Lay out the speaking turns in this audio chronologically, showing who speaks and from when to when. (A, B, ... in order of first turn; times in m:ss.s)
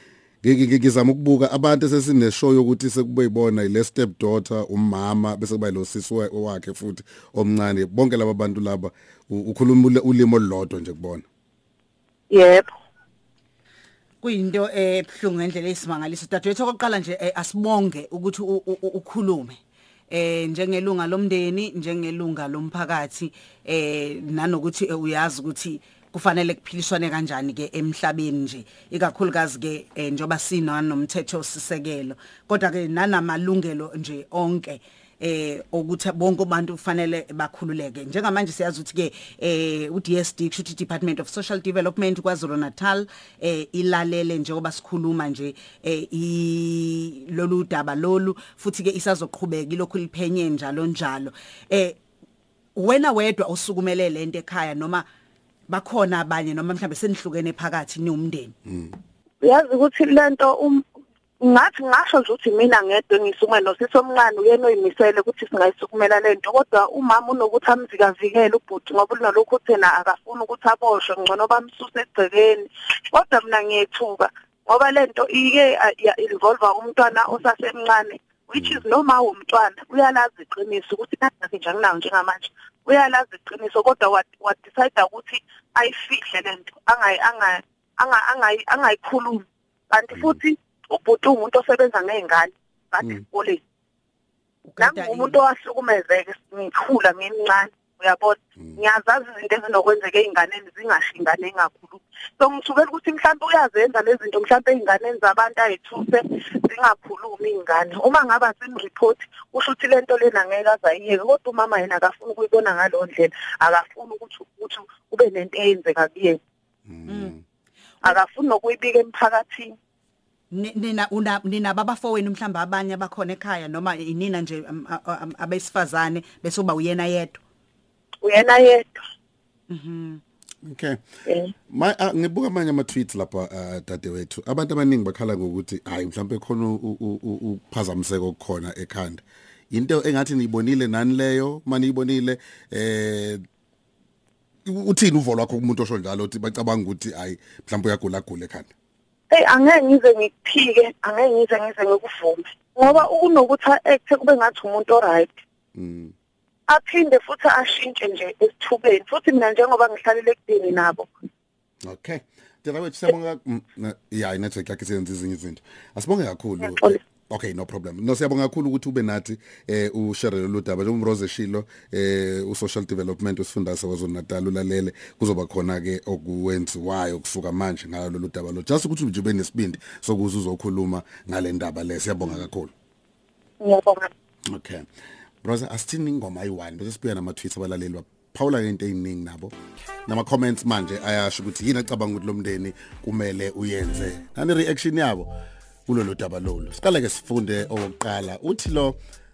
0:00.4-0:11.2 A
0:12.3-0:12.7 B
0:14.2-0:19.6 C
0:20.1-0:52.0 C
0:52.8-0:55.0 C
0:55.7-0:58.5 C
0:58.6-0:58.9 A
0:59.4-1:00.8 B
1:01.4-1:33.6 B
1:18.6-1:18.8 A
1:30.1-1:30.4 A
1:34.6-1:35.4 C
1:34.8-1:56.4 B
1:56.9-1:57.4 A
1:57.1-1:57.3 C
1:58.0-1:59.7 B
2:00.5-2:07.4 C
2:08.2-2:09.0 B
2:09.7-2:10.2 C
2:10.6-2:11.0 A
2:11.2-2:11.5 B
2:11.7-2:23.4 A
2:24.6-2:28.7 A
2:29.3-2:35.4 B
2:35.7-2:36.1 A
2:36.7-2:41.1 B
2:41.8-3:02.7 A
2:46.6-2:47.0 B
3:03.6-3:04.1 B
3:04.5-3:04.8 A
3:05.4-3:09.5 A
3:10.1-3:15.3 A
3:15.9-3:19.0 A